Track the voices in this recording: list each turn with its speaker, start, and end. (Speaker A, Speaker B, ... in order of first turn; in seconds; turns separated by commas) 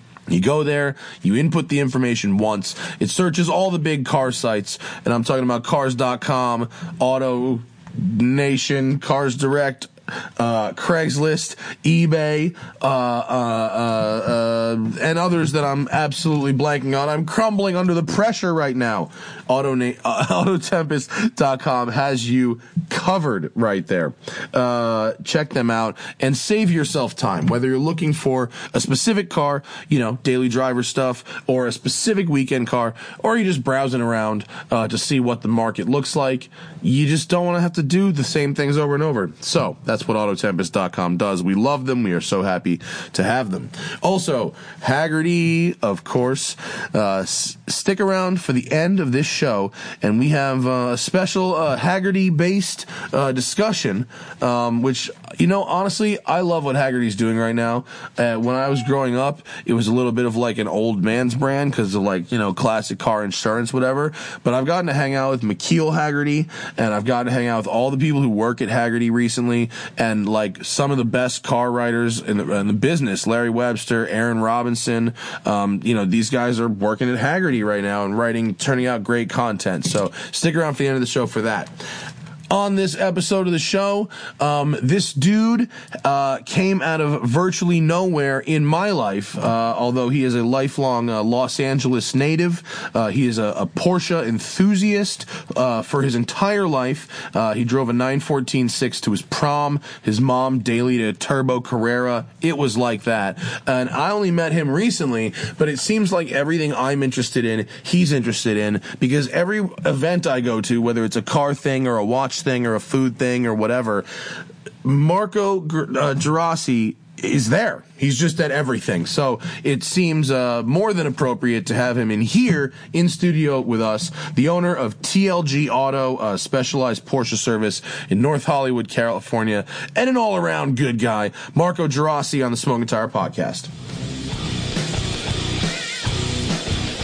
Speaker A: 0.3-81.9, Speaker A: 82.5-114.0, Speaker A: 114.8-133.7